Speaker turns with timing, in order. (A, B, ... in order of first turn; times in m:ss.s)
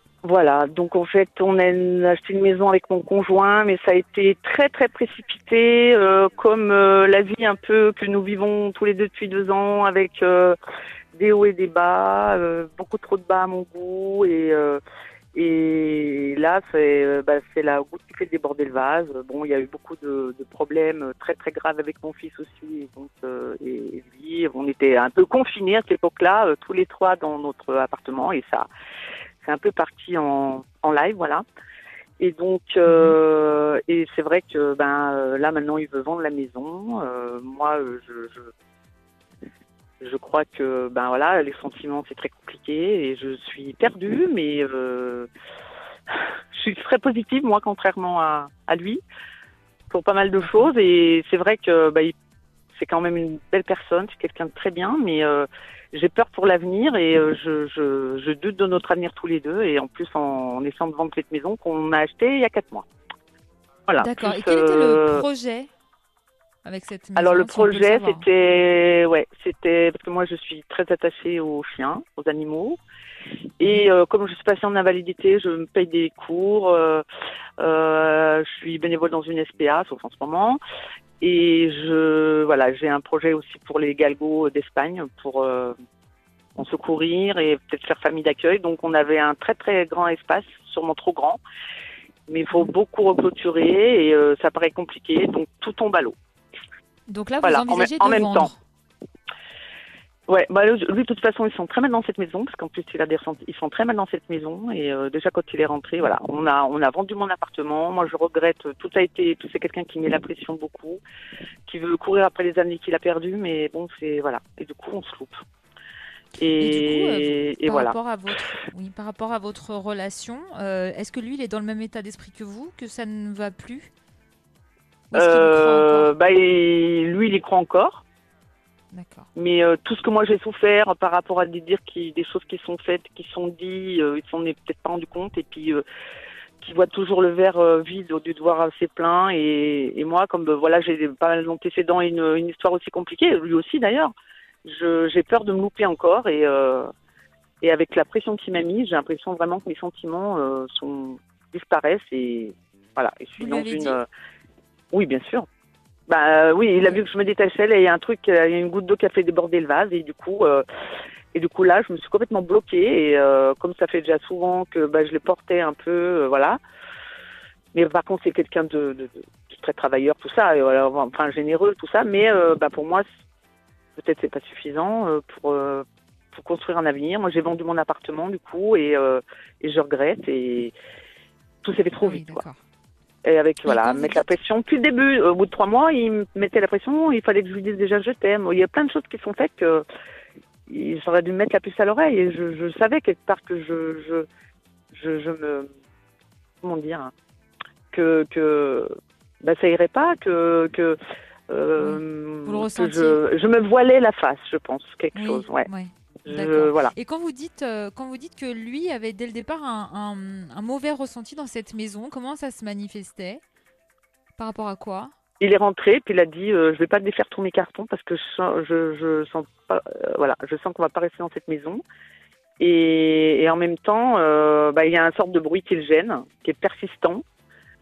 0:00.2-0:10.6 A
0:11.2-0:14.8 A
0:15.4-0:28.7 A
0:29.4-0:31.4 A
0:32.2-0:38.5 A
0:32.9-0:33.2 B
0:40.0-0:45.3 A
0:46.5-0:49.0 A
0:49.9-0:52.1 A
0:50.4-0:50.7 B
0:52.7-1:02.8 A
1:03.9-1:05.2 A
1:04.0-1:05.7 B
1:06.6-1:08.2 B
1:07.2-1:12.8 A
1:13.6-1:17.0 A
1:13.6-1:13.9 B
1:17.6-1:20.6 A
1:21.2-1:25.8 A
1:26.6-1:31.4 A
1:32.3-1:36.2 A
1:37.1-1:38.6 B
1:37.4-1:38.5 A
1:40.3-1:51.0 A
1:51.7-1:55.4 A
1:56.4-1:58.0 A
1:56.6-2:03.9 B
2:05.1-2:06.1 B
2:05.2-2:08.0 A
2:08.9-2:09.3 B
2:09.4-2:15.8 A
2:16.6-2:24.1 A
2:24.6-2:26.9 A
2:27.6-2:34.0 A
2:33.4-2:34.0 B
2:34.9-2:35.5 A
2:36.1-2:40.6 A
2:41.3-2:46.6 A
2:47.7-2:53.0 A
2:54.0-3:00.7 A
3:01.6-3:02.4 A
3:02.0-3:02.6 B
3:03.2-3:09.8 A
3:03.7-3:04.3 B
3:10.7-3:14.3 A
3:14.9-3:15.7 A
3:16.6-3:17.1 A
3:17.9-3:21.0 A
3:21.5-3:25.7 A
3:21.8-3:23.2 B
3:25.1-3:33.4 B
3:26.3-3:26.9 A
3:34.4-3:35.1 B
3:35.4-3:41.8 A
3:42.6-3:47.2 A